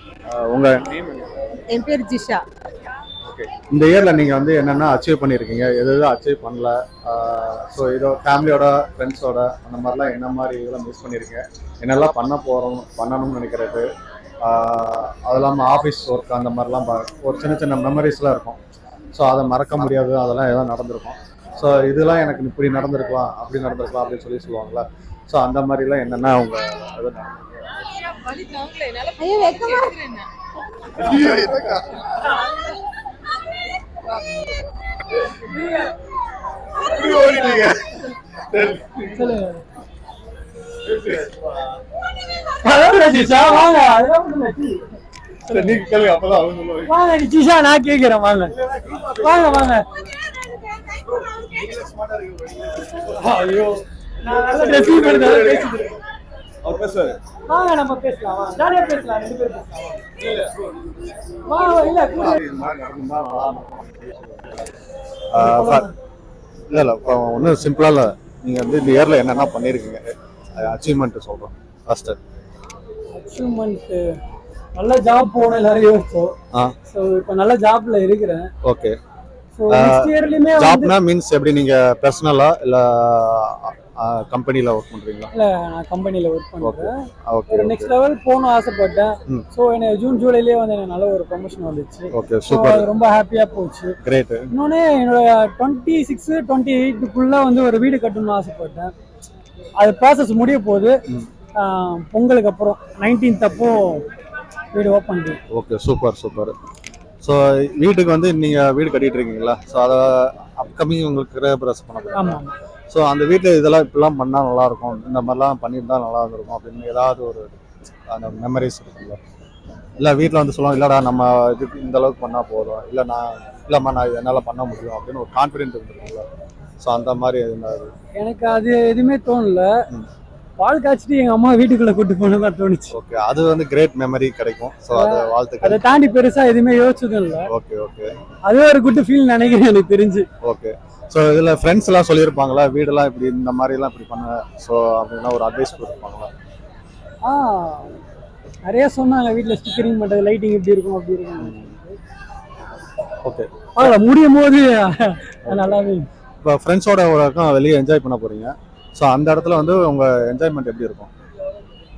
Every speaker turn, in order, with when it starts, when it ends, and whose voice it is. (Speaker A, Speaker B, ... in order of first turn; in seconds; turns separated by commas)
Speaker A: 0.3-1.3, Speaker B: 1.7-2.5, Speaker A: 3.2-13.9, Speaker A: 14.4-18.6, Speaker A: 19.1-27.8, Speaker B: 28.3-30.3, Speaker A: 31.0-31.8, Speaker A: 37.0-38.0, Speaker A: 38.5-39.1, Speaker C: 39.0-39.6, Speaker C: 42.6-44.9, Speaker C: 45.5-46.0, Speaker A: 45.5-46.9, Speaker C: 46.9-49.9, Speaker A: 51.6-53.0, Speaker C: 53.0-56.0, Speaker A: 56.6-57.2, Speaker C: 57.5-60.5, Speaker C: 61.5-62.4, Speaker A: 62.1-64.7, Speaker A: 65.3-65.9, Speaker C: 65.4-65.9, Speaker A: 66.7-72.2, Speaker C: 73.1-74.2, Speaker C: 74.8-76.3, Speaker C: 76.9-78.5, Speaker A: 78.6-79.0, Speaker C: 79.6-80.9, Speaker A: 79.7-85.3, Speaker C: 85.3-94.0, Speaker A: 86.6-87.9, Speaker A: 92.1-92.9, Speaker A: 94.0-94.5, Speaker C: 94.5-98.9, Speaker C: 99.8-101.0, Speaker C: 101.5-104.1, Speaker C: 104.7-105.4, Speaker A: 105.5-106.6, Speaker A: 107.2-119.2, Speaker C: 112.1-112.5, Speaker A: 120.0-126.3, Speaker A: 126.8-127.9, Speaker C: 128.2-129.8, Speaker C: 130.6-132.9, Speaker A: 132.9-135.8, Speaker C: 134.9-137.5, Speaker A: 137.5-138.2, Speaker C: 138.5-140.3, Speaker A: 140.4-146.3, Speaker C: 147.2-148.0, Speaker C: 148.6-152.0, Speaker A: 151.4-151.7, Speaker A: 153.2-153.7, Speaker C: 153.8-156.1, Speaker A: 156.4-161.1